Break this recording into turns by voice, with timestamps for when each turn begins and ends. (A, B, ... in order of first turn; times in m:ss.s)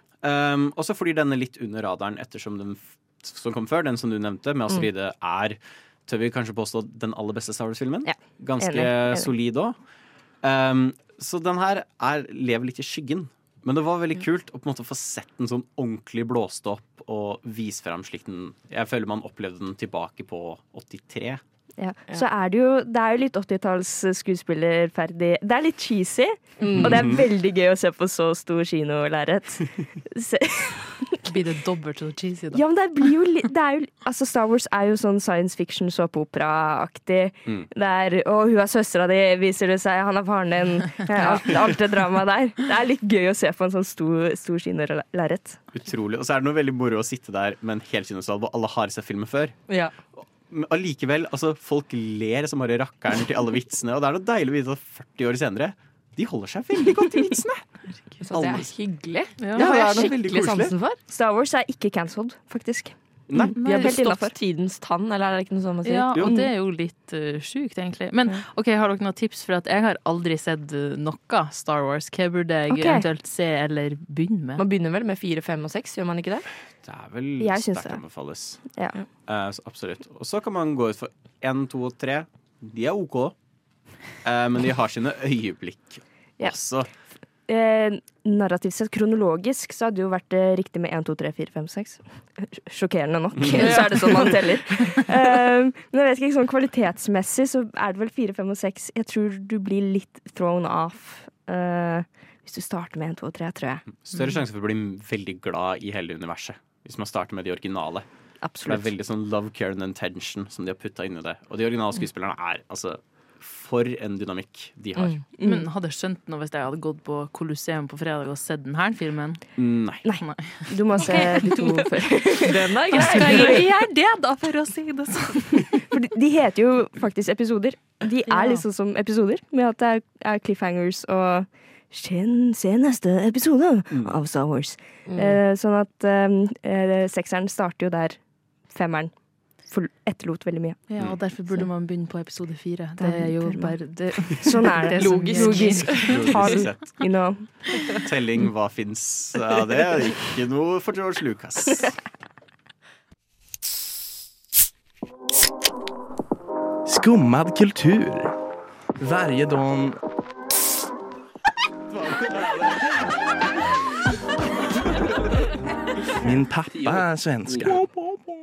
0:00.2-0:09.8 A
0:08.0-0:09.3 B
0:10.4-0:21.4 A
0:21.8-0:31.2 B
0:26.6-0:27.1 C
0:26.8-0:27.2 A
0:31.3-0:32.6 D
0:32.5-0:45.6 B
0:45.7-0:49.6 A
0:49.7-0:49.9 C
0:50.2-0:57.6 A
0:58.2-1:01.0 C
0:58.3-0:58.7 A
0:59.5-1:00.7 A
1:01.1-1:04.3 B
1:03.3-1:03.6 A
1:03.6-1:03.9 D
1:03.6-1:06.4 C
1:05.8-1:14.6 D
1:12.7-1:13.0 B
1:14.6-1:16.4 C
1:16.8-1:18.6 A
1:17.4-1:18.0 B
1:18.7-1:19.0 B
1:19.2-1:23.3 A
1:24.2-1:26.9 A
1:27.4-1:43.9 B
1:33.4-1:33.7 A
1:33.6-1:34.4 C
1:43.9-1:48.0 A
1:48.4-1:48.9 C
1:48.6-1:55.2 A
1:55.0-1:55.2 C
1:55.4-1:55.6 B
1:55.4-1:59.4 D
1:59.6-2:00.0 A
2:00.0-2:03.5 B
2:00.1-2:01.5 D
2:01.6-2:03.7 C
2:02.9-2:05.8 D
2:05.9-2:20.8 B
2:08.3-2:08.6 D
2:15.0-2:15.4 C
2:20.9-2:26.2 D
2:23.0-2:23.8 B
2:24.4-2:28.0 B
2:25.0-2:26.6 C
2:25.9-2:27.0 A
2:28.0-2:31.9 A
2:36.9-2:38.3 E
2:39.0-2:40.0 E
2:41.9-2:42.7 A
2:46.2-2:48.0 E